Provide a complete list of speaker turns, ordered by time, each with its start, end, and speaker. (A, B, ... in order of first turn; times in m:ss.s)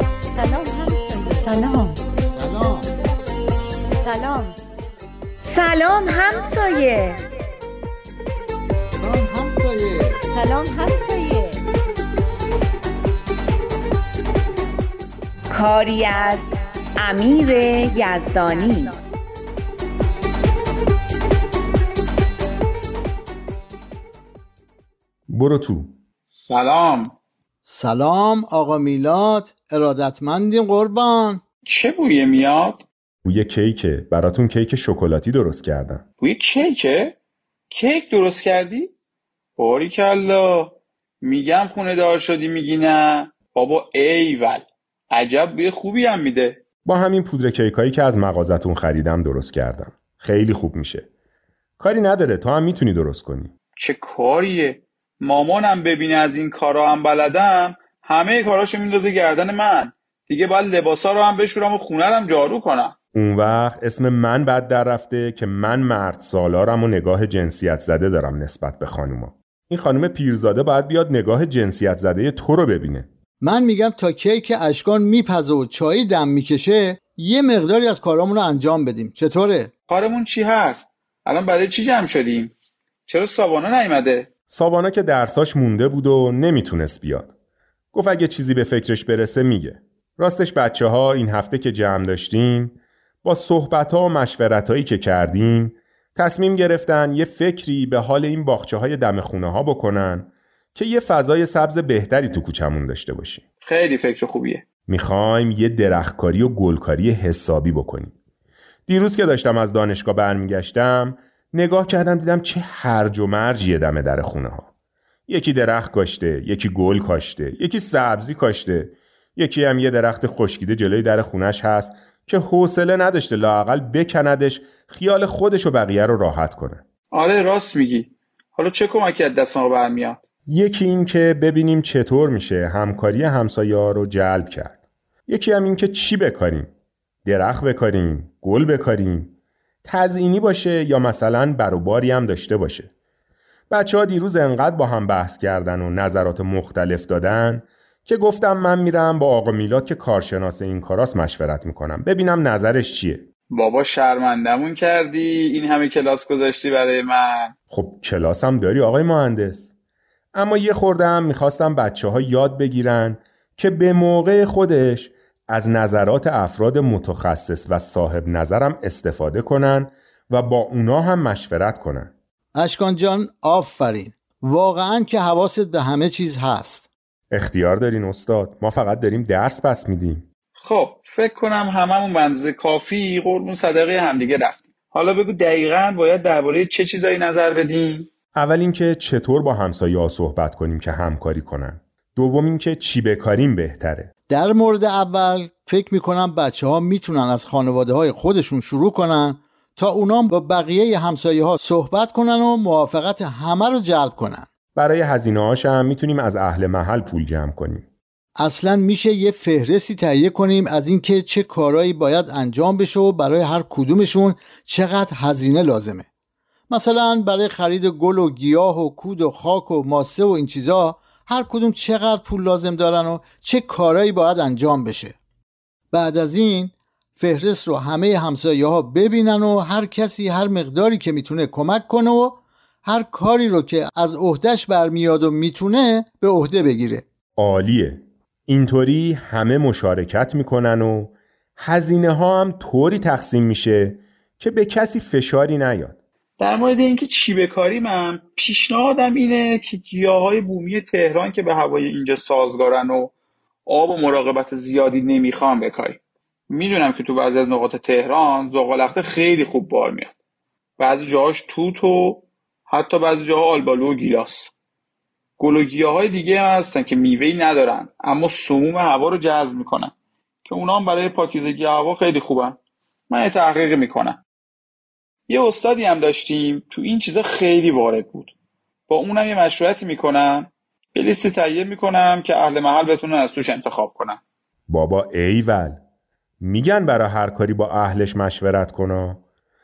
0:00.3-0:02.0 A
0:02.3-0:02.9 B
0:04.0-0:04.6 A
0:05.4-0:07.2 C
0:09.0-0:10.2 B
0:10.3-0:11.6 A
0:15.5-0:18.9 C
0:25.3-0:25.9 D
0:26.3-0:27.1 E
0:27.6-0:31.4 B
0:31.6-0:32.8 E
0:33.2-0:36.0 D
0:36.2-0:37.2 E
0:37.7-0:38.9 E
0:39.6-0:46.6 E
0:46.8-0:51.1 D
0:51.8-0:53.5 D
0:53.8-1:02.9 E
1:03.1-1:13.1 D
1:13.4-1:19.7 B
1:19.9-1:22.5 E
1:23.1-1:24.3 E
1:24.5-1:27.3 D
1:27.9-1:43.4 D
1:43.6-1:44.6 E
1:44.9-1:48.1 D
1:48.9-1:54.7 D
1:55.3-2:06.8 D
2:07.1-2:10.2 E
2:10.5-2:14.8 D
2:15.3-2:16.7 D
2:17.2-2:22.9 D
2:23.7-2:33.2 D
2:33.5-2:37.5 E
2:37.7-2:39.7 D
2:40.3-2:52.1 D
2:52.6-2:56.9 B
2:57.3-3:00.2 D
3:00.6-3:08.1 E
3:08.4-3:14.1 D
3:14.3-3:24.5 B
3:24.8-3:27.8 D
3:28.4-3:36.0 B
3:36.7-3:45.2 B
3:45.9-3:57.0 B
3:57.4-4:06.0 D
4:06.4-4:13.1 E
4:13.7-4:16.0 E
4:16.5-4:20.1 E
4:20.8-4:24.5 E
4:25.4-4:29.9 E
4:30.4-4:32.6 E
4:33.1-4:34.2 E
4:35.3-4:38.3 E
4:38.9-4:44.2 E
4:44.7-4:45.8 D
4:46.4-4:49.2 D